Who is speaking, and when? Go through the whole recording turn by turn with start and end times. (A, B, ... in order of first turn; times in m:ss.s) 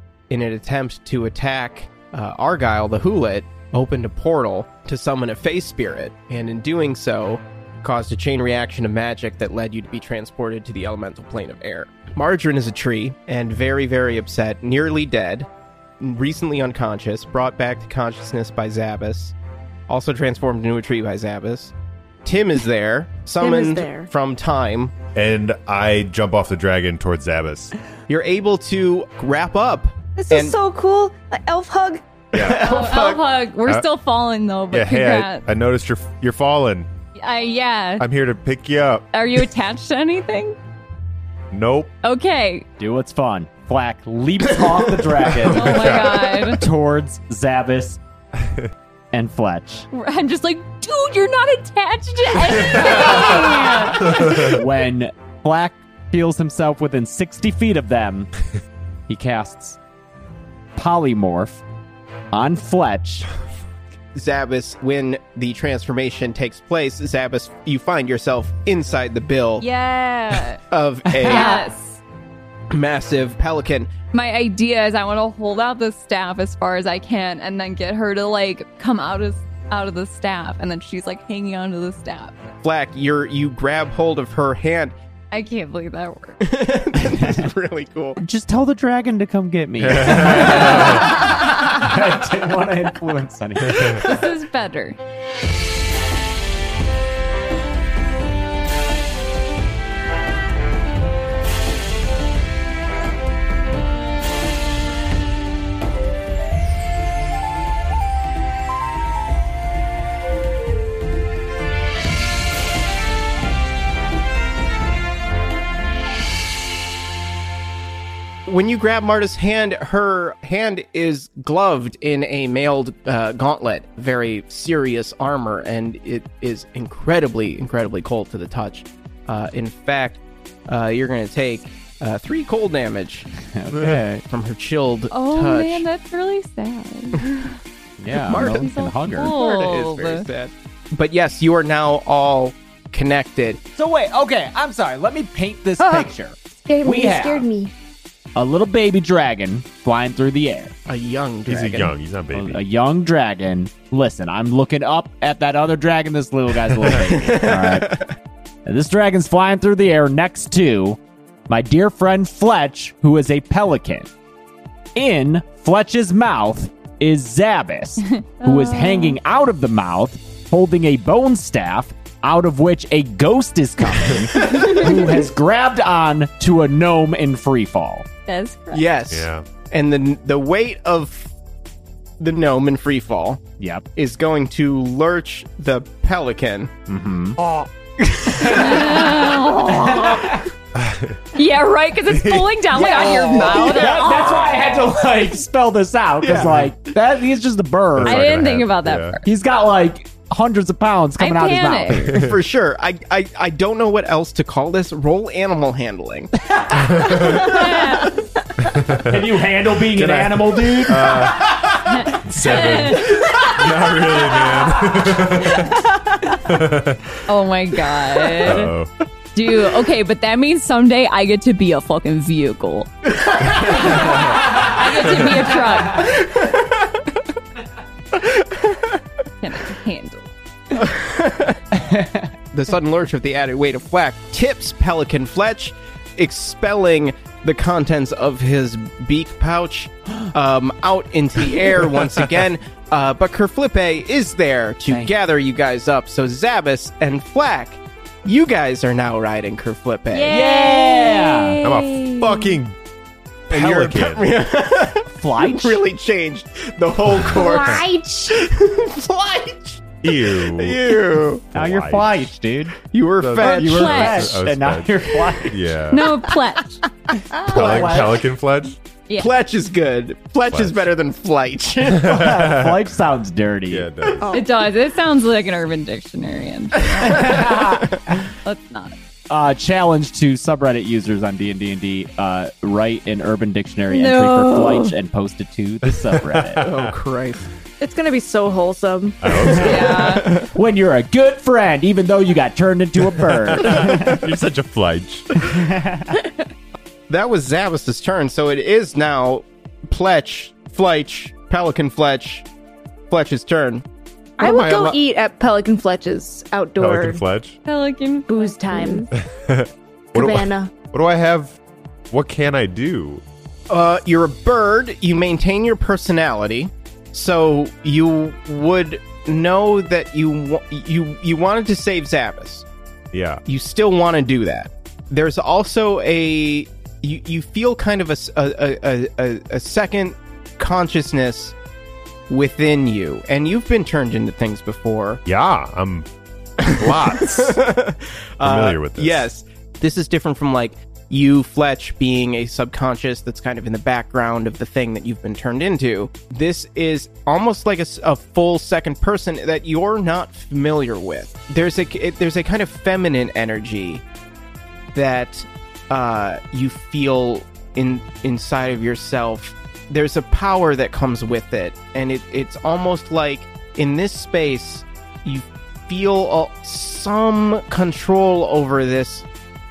0:00.3-0:15.5 A
0:16.0-0:19.3 A
0:19.9-0:21.7 A
0:22.2-0:24.9 A
0:23.4-0:24.1 B
0:25.2-0:27.7 C
0:28.1-0:30.6 A
0:30.2-0:32.0 B
0:32.3-0:33.2 A
0:32.3-0:32.7 C
0:32.6-0:35.4 D
0:34.7-0:36.9 C
0:37.2-0:38.1 D
0:38.0-0:39.1 C
0:39.1-0:40.6 D
0:41.5-0:41.9 C
0:42.0-0:42.7 D
0:42.8-0:48.0 E
0:45.3-0:46.3 C
0:45.5-0:46.6 D
0:48.4-0:48.7 C
0:49.1-0:49.9 E
0:49.9-0:54.6 D
0:52.7-0:53.2 C
0:52.9-0:53.3 E
0:54.0-0:58.3 E
0:54.1-0:54.6 C
0:59.1-0:59.8 E
1:00.8-1:01.6 E
1:02.3-1:03.3 E
1:04.2-1:09.7 A
1:09.6-1:10.6 D
1:10.7-1:11.5 A
1:11.1-1:11.6 E
1:11.3-1:12.0 D
1:11.3-1:11.6 B
1:12.7-1:13.9 A
1:14.1-1:22.5 D
1:22.6-1:25.0 A
1:25.3-1:26.4 D
1:26.4-1:28.2 A
1:27.0-1:27.5 E
1:28.2-1:34.2 E
1:29.8-1:31.1 C
1:30.2-1:31.8 D
1:33.7-1:34.0 C
1:33.8-1:35.0 D
1:58.5-2:15.8 A
2:13.5-2:14.2 E
2:15.1-2:17.4 D
2:18.0-2:19.4 E
2:18.3-2:23.6 A
2:18.3-2:20.3 D
2:23.8-2:27.5 E
2:25.8-2:26.1 A
2:26.6-2:27.7 B
2:28.4-2:30.8 E
2:30.9-2:31.9 A
2:31.5-2:32.6 C
2:31.7-2:38.0 E
2:36.9-2:38.1 A
2:38.6-2:44.1 E
2:45.0-2:58.1 E
2:48.4-2:49.2 D
2:58.3-2:58.8 D
2:58.7-3:01.3 A
2:59.1-2:59.4 C
3:02.2-3:03.4 A
3:03.6-3:03.8 E
3:04.0-3:06.7 A
3:06.9-3:07.4 E
3:08.0-3:08.9 A
3:08.4-3:10.4 D
3:08.4-3:10.5 E
3:10.8-3:11.2 C
3:11.4-3:14.7 D
3:12.1-3:12.6 C
3:12.7-3:18.3 E
3:12.9-3:14.1 A
3:16.2-3:16.9 A
3:18.0-3:19.2 C
3:18.0-3:19.2 D
3:19.2-3:22.3 E
3:21.2-3:22.2 D
3:22.0-3:22.4 C
3:22.2-3:26.3 A
3:26.8-3:27.6 C
3:27.1-3:28.2 D
3:28.6-3:29.3 C
3:29.0-3:31.8 E
3:29.9-3:35.8 C
3:31.8-3:33.7 D
3:36.4-3:37.2 C
3:37.3-3:38.7 D
3:38.4-3:38.9 C
3:39.4-3:46.2 D
3:43.9-3:44.3 C
3:46.0-3:47.0 A
3:48.2-3:49.0 A
3:49.4-3:50.3 D
3:50.7-3:51.6 A
3:51.7-3:52.3 E
3:52.5-4:10.4 A
4:04.9-4:05.1 E
4:10.1-4:12.6 D
4:10.3-4:11.6 E
4:11.6-4:12.8 C
4:13.5-4:14.3 C
4:13.5-4:21.5 A
4:15.1-4:15.8 E
4:17.4-4:18.3 B
4:20.0-4:20.9 C
4:21.5-4:22.2 C
4:21.5-4:22.8 E
4:22.9-4:24.0 A
4:23.2-4:26.2 C
4:23.4-4:25.8 E
4:23.4-4:24.4 D
4:25.9-4:26.8 D
4:27.4-4:28.2 E
4:27.4-4:28.8 C
4:27.7-4:28.1 A
4:29.2-4:32.2 A
4:30.5-4:30.9 C
4:32.0-4:32.9 C
4:32.0-4:33.9 E
4:33.7-4:34.3 C
4:34.2-4:34.6 B
4:34.3-4:37.5 D
4:37.0-4:38.2 E
4:37.1-4:38.0 A
4:38.4-4:39.0 D
4:39.3-4:46.6 E
4:43.9-4:45.0 D
4:45.9-4:46.9 C
4:46.6-4:47.5 A
4:47.8-4:49.5 B
4:49.2-4:50.0 C
4:49.4-4:50.5 A
4:49.5-4:50.3 D
4:50.5-4:54.2 E
4:53.2-4:55.5 C
4:55.5-4:56.2 E
4:57.1-5:02.4 A
5:03.1-5:03.8 A
5:04.4-5:07.2 B
5:04.4-5:05.0 C
5:06.8-5:07.6 C
5:07.6-5:09.1 D
5:08.3-5:09.1 B
5:09.1-5:11.6 C
5:10.2-5:10.7 B
5:12.1-5:13.2 C
5:13.7-5:22.6 A
5:23.1-5:23.4 C
5:23.4-5:31.6 A
5:32.3-5:35.2 A
5:35.2-5:36.1 C
5:36.6-5:54.0 A
5:36.6-5:37.6 C
5:38.4-5:39.3 C
5:54.9-6:09.3 A